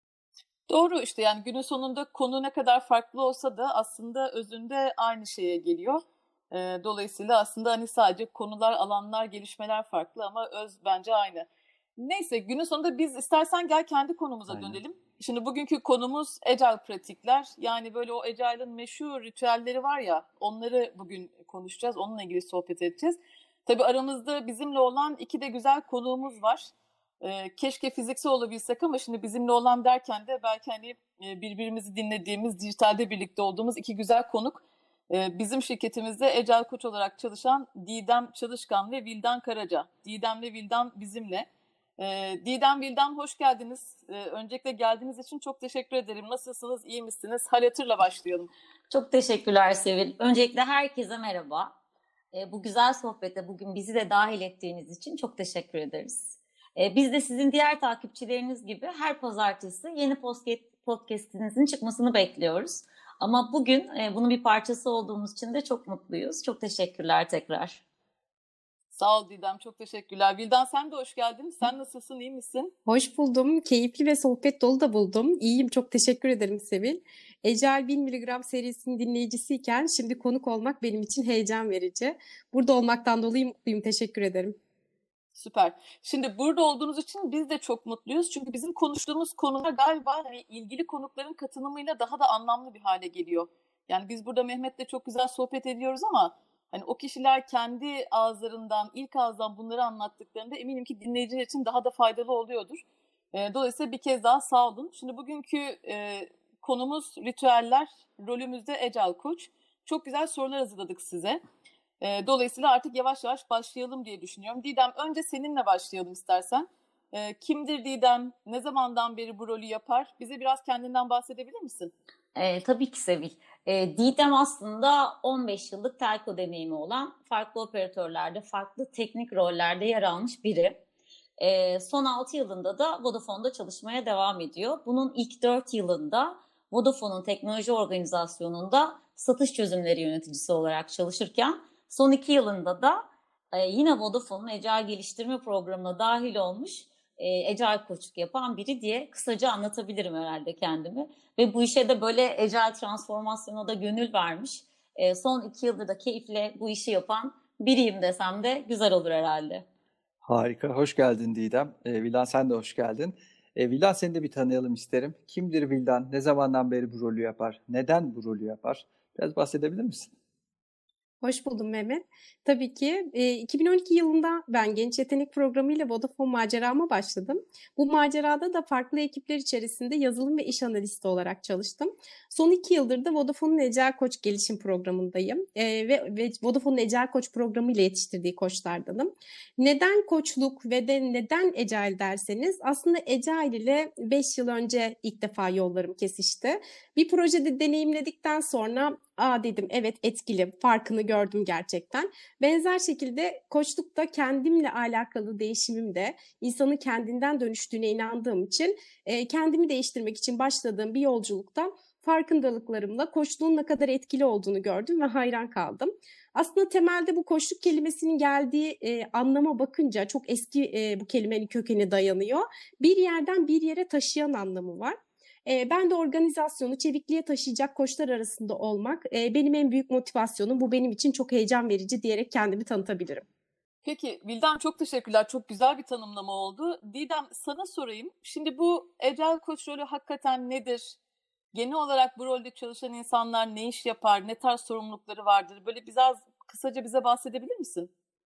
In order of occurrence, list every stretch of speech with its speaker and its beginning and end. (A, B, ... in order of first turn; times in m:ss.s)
0:00.7-0:41.5 A
0:14.5-0:14.8 B
0:42.0-0:48.5 A
0:48.9-0:51.7 C
0:52.3-1:07.8 C
1:09.0-1:12.7 A
1:12.9-1:24.6 D
1:25.4-1:51.4 A
1:52.0-2:01.9 A
2:02.4-2:10.8 C
2:11.4-2:39.6 C
2:40.2-2:50.1 B
2:51.2-3:53.2 D
3:53.8-4:01.0 A
4:01.5-4:07.9 A